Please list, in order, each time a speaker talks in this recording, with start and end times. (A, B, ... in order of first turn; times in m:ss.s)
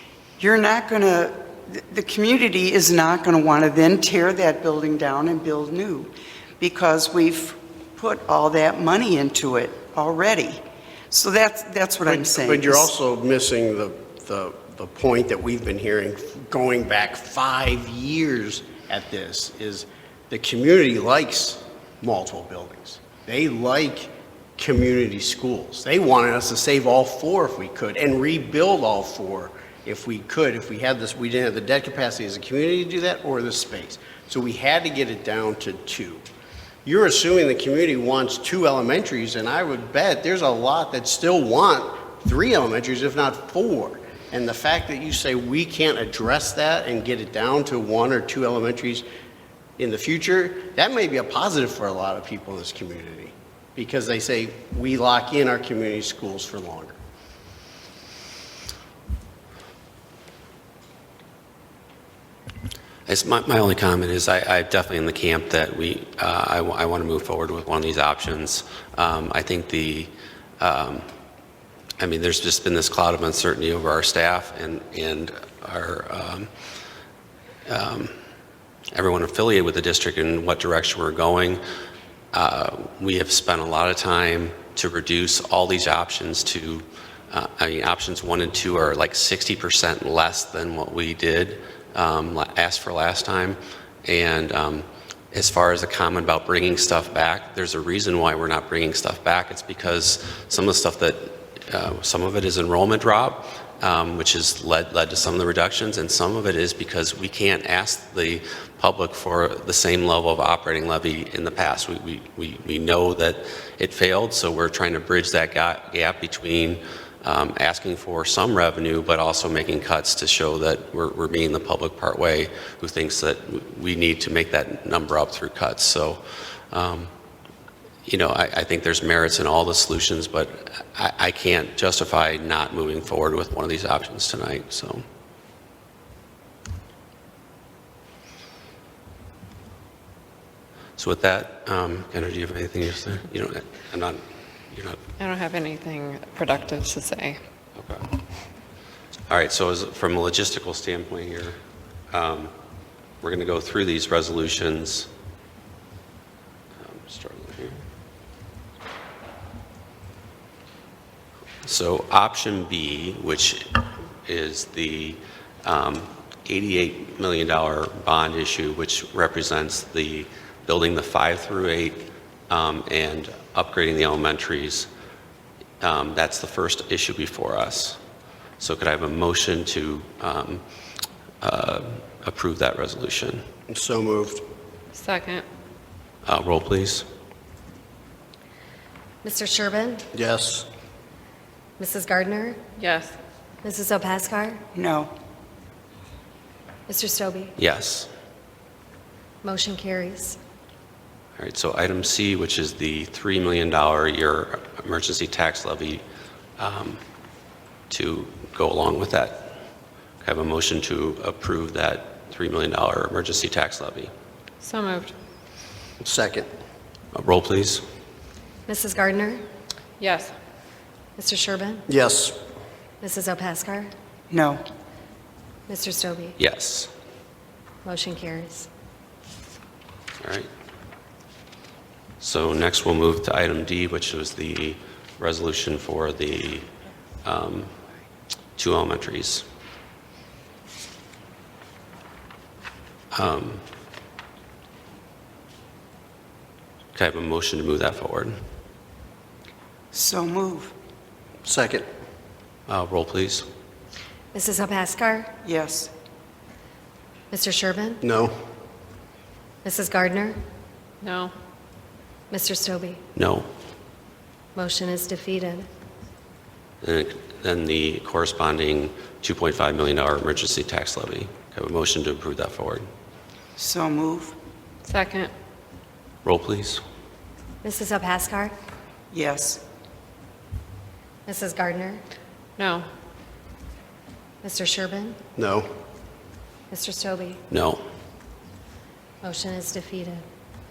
0:00.4-0:12.9 A
0:12.0-0:36.2 B
0:36.8-0:49.1 B
0:49.8-0:57.0 B
1:03.1-1:11.1 C
1:12.0-1:16.5 C
1:17.7-1:18.1 C
1:18.9-1:21.6 C
1:22.3-2:07.1 C
2:08.1-2:15.0 C
2:21.0-2:24.2 C
2:24.7-2:25.0 C
2:25.2-2:27.4 D
2:27.8-2:28.1 C
2:29.3-2:31.6 C
2:32.1-2:32.5 C
2:33.2-2:35.1 C
2:36.8-2:37.8 C
2:41.6-2:54.9 C
2:55.8-2:58.0 C
2:58.6-3:00.6 C
3:01.4-3:03.4 C
3:03.7-3:04.4 B
3:05.0-3:05.4 D
3:06.2-3:07.1 C
3:09.2-3:10.1 E
3:10.1-3:10.7 B
3:11.8-3:12.6 E
3:12.8-3:13.1 D
3:13.6-3:14.6 E
3:14.8-3:15.1 A
3:16.9-3:17.6 E
3:17.6-3:18.1 C
3:19.4-3:20.4 E
3:21.4-3:26.0 C
3:26.6-3:27.0 C
3:27.9-3:29.6 C
3:30.2-3:34.1 C
3:34.6-3:35.1 D
3:36.0-3:36.5 B
3:37.1-3:37.8 C
3:38.7-3:39.4 E
3:40.0-3:40.3 D
3:41.2-3:41.9 E
3:41.9-3:42.4 B
3:43.0-3:43.9 E
3:44.3-3:44.6 A
3:45.7-3:46.4 E
3:46.4-3:46.9 C
3:47.8-3:48.7 E
3:50.2-3:50.5 C
3:52.2-3:56.7 C
3:57.2-3:57.7 C
3:58.6-3:59.5 C
4:03.1-4:03.6 C
4:06.9-4:08.4 C
4:09.9-4:10.7 A
4:11.4-4:11.9 B
4:12.7-4:13.5 C
4:14.3-4:15.3 E
4:15.4-4:15.9 A
4:17.3-4:18.0 E
4:18.0-4:18.4 B
4:19.6-4:20.4 E
4:21.0-4:21.3 D
4:22.3-4:23.0 E
4:23.2-4:23.5 C
4:24.6-4:25.7 E
4:26.8-4:32.9 C
4:33.6-4:34.4 A
4:34.8-4:35.3 D
4:36.2-4:36.8 C
4:37.6-4:38.5 E
4:39.1-4:39.6 A
4:41.3-4:42.0 E
4:42.6-4:42.9 D
4:44.4-4:45.2 E
4:45.4-4:45.7 B
4:46.7-4:47.4 E
4:47.5-4:47.8 C
4:49.2-4:50.2 E